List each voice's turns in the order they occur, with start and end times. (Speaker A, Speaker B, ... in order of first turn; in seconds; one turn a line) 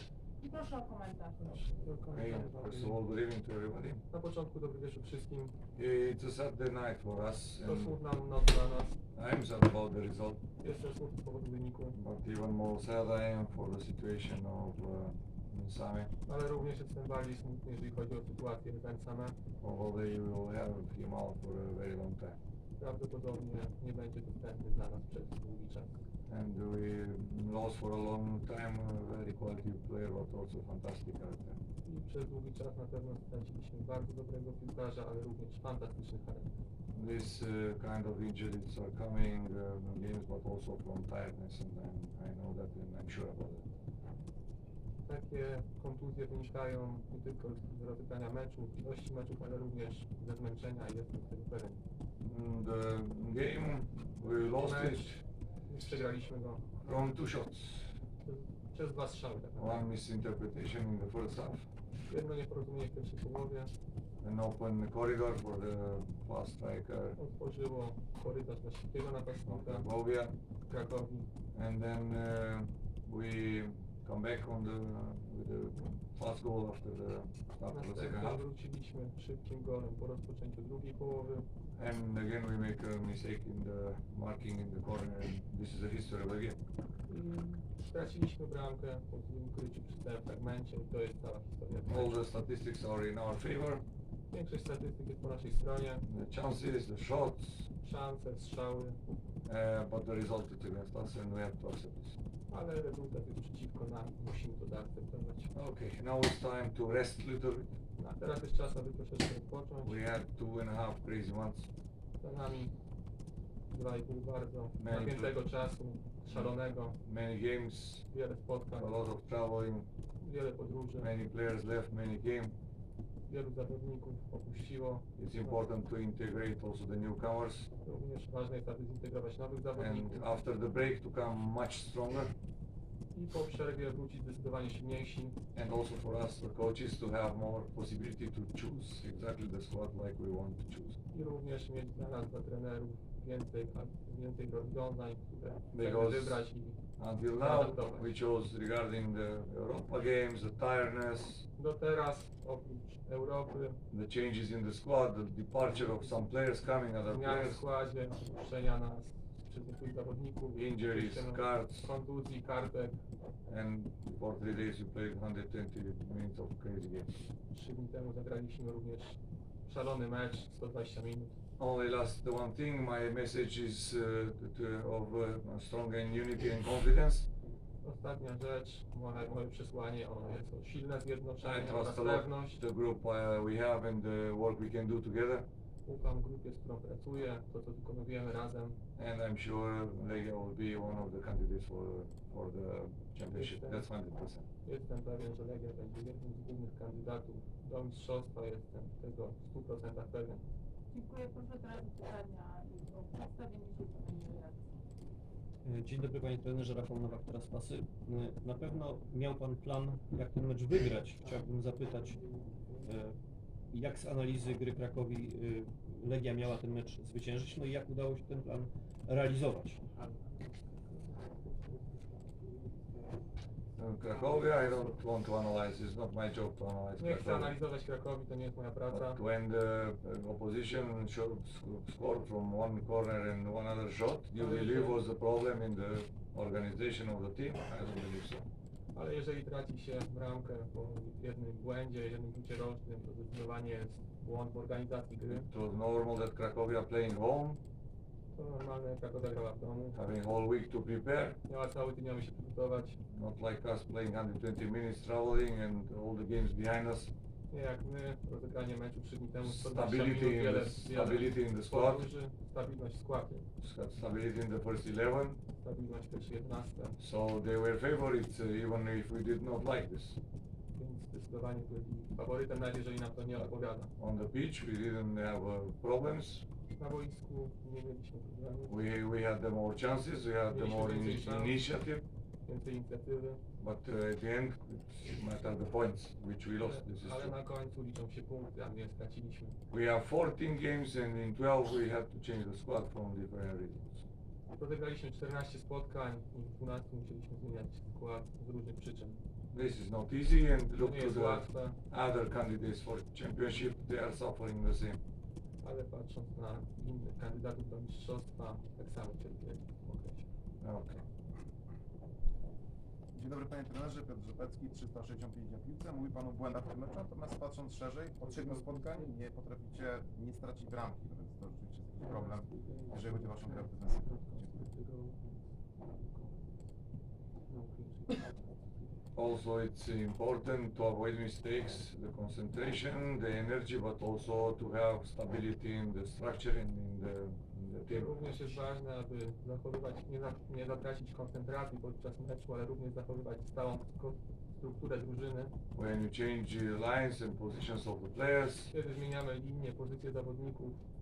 Speaker A: 0.4-1.6
Speaker B: 1.4-3.0
Speaker C: 2.1-4.0
Speaker B: 4.1-5.5
Speaker C: 5.8-7.9
Speaker B: 7.6-9.0
Speaker C: 9.1-10.4
Speaker B: 10.6-12.0
Speaker C: 11.9-16.1
Speaker B: 16.2-19.4
Speaker C: 19.6-22.4
Speaker B: 22.8-26.0
Speaker C: 26.3-31.6
Speaker B: 31.8-36.5
Speaker C: 36.9-43.6
Speaker B: 45.0-51.8
Speaker C: 52.2-55.2
Speaker B: 54.5-55.1
Speaker B: 55.7-56.7
Speaker C: 56.8-57.9
Speaker B: 58.2-59.9
Speaker C: 59.6-61.7
Speaker B: 62.0-63.7
Speaker C: 64.2-67.2
Speaker B: 67.2-69.9
Speaker C: 69.5-70.3
Speaker B: 70.6-71.3
Speaker C: 71.5-78.4
Speaker B: 77.7-81.5
Speaker C: 81.8-86.6
Speaker B: 87.1-92.2
Speaker C: 91.9-93.8
Speaker B: 94.3-96.0
Speaker C: 96.0-97.7
Speaker B: 97.8-99.0
Speaker C: 99.5-102.2
Speaker B: 102.5-105.5
Speaker C: 105.5-107.8
Speaker B: 108.0-110.0
Speaker C: 109.8-111.7
Speaker B: 112.2-112.7
Speaker B: 113.7-117.0
Speaker C: 114.8-115.4
Speaker C: 116.3-118.1
Speaker B: 118.1-119.0
Speaker C: 118.7-119.9
Speaker B: 120.2-121.1
Speaker C: 121.0-122.5
Speaker B: 123.3-125.6
Speaker C: 125.2-127.7
Speaker B: 127.8-130.4
Speaker C: 129.7-132.3
Speaker B: 133.1-135.4
Speaker C: 135.5-141.0
Speaker B: 141.1-146.8
Speaker C: 145.7-146.4
Speaker C: 147.0-151.4
Speaker B: 147.3-148.1
Speaker B: 151.6-153.8
Speaker C: 153.9-157.6
Speaker B: 155.7-156.1
Speaker B: 157.1-163.0
Speaker C: 160.6-161.9
Speaker C: 163.5-167.1
Speaker B: 167.5-171.3
Speaker C: 171.6-177.3
Speaker B: 177.8-182.6
Speaker C: 181.4-185.5
Speaker B: 185.8-188.8
Speaker C: 189.0-194.4
Speaker B: 193.3-193.8
Speaker B: 194.6-200.4
Speaker A: 200.9-204.7
Speaker D: 205.6-213.2
Speaker B: 212.1-212.8
Speaker D: 213.7-219.8
Speaker B: 219.9-223.2
Speaker C: 223.8-227.5
Speaker B: 224.1-224.9
Speaker B: 227.0-229.2
Speaker C: 228.9-238.5
Speaker B: 234.3-235.0
Speaker B: 238.9-245.5
Speaker C: 245.3-247.6
Speaker B: 248.3-249.9
Speaker C: 249.9-251.4
Speaker B: 251.4-253.0
Speaker C: 253.1-257.1
Speaker B: 257.5-263.4
Speaker C: 259.4-262.0
Speaker C: 263.6-265.4
Speaker B: 265.6-267.0
Speaker C: 267.0-270.2
Speaker B: 270.7-273.9
Speaker C: 273.4-276.4
Speaker B: 276.7-278.8
Speaker C: 278.7-282.0
Speaker B: 280.5-281.6
Speaker B: 282.4-283.4
Speaker C: 283.6-287.3
Speaker B: 286.6-289.6
Speaker C: 289.7-294.0
Speaker B: 294.5-299.2
Speaker C: 299.5-305.0
Speaker B: 300.8-301.8
Speaker B: 305.6-310.3
Speaker C: 310.6-311.0
Speaker E: 313.1-324.7
Speaker B: 318.2-319.1
Speaker B: 322.0-326.6
Speaker B: 327.5-329.0
Speaker C: 329.1-338.2
Speaker B: 337.9-345.5
Speaker C: 345.7-348.7
Speaker B: 348.7-350.8